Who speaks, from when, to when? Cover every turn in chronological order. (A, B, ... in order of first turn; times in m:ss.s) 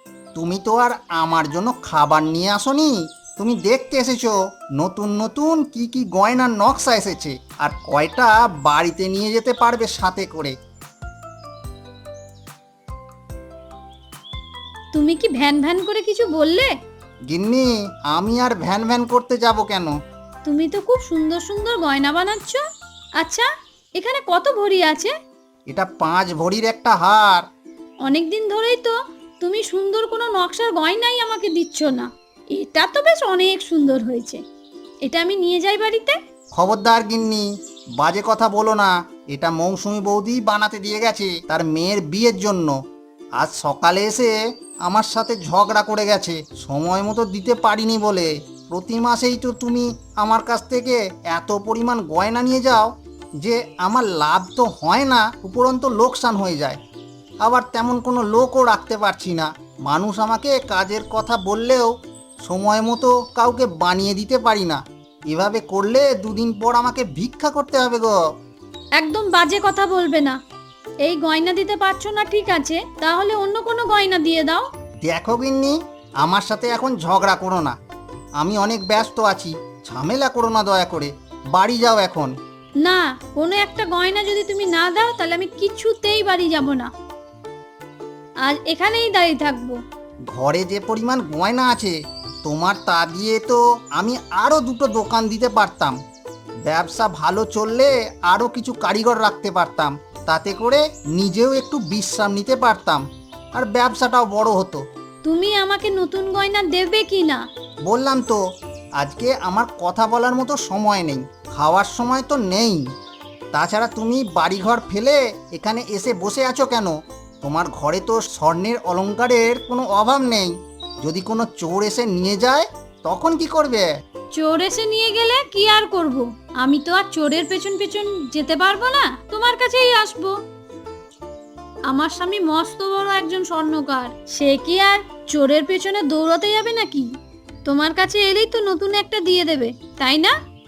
0:00.3-0:10.5 A
0:14.9-0:16.7 B
0:17.3-0:19.9 A
0:20.4-0:22.6 B
0:23.2-0:25.1 B
0:25.7-0:27.4 A
0:28.0-0:34.4 B
0:35.0-0:36.2 B
0:36.6-0:37.4 A
0:38.0-0:42.7 A
0:43.4-0:44.3 A
0:44.8-0:56.8 A
0:57.4-1:01.9 A
1:02.4-1:08.1 A
1:09.0-1:10.4 B
1:11.0-1:14.7 B
1:15.0-1:17.7 A
1:18.4-1:22.3 A
1:22.8-1:26.9 B
1:28.4-1:29.8 B
1:30.3-1:36.0 A
1:36.6-1:44.8 A
1:45.2-1:47.4 B
1:47.9-1:48.4 A
1:49.0-1:52.8 A
1:53.5-2:00.5 A
2:01.0-2:03.9 A
2:04.3-2:10.3 B
2:11.9-2:17.1 B
2:17.6-2:20.3 B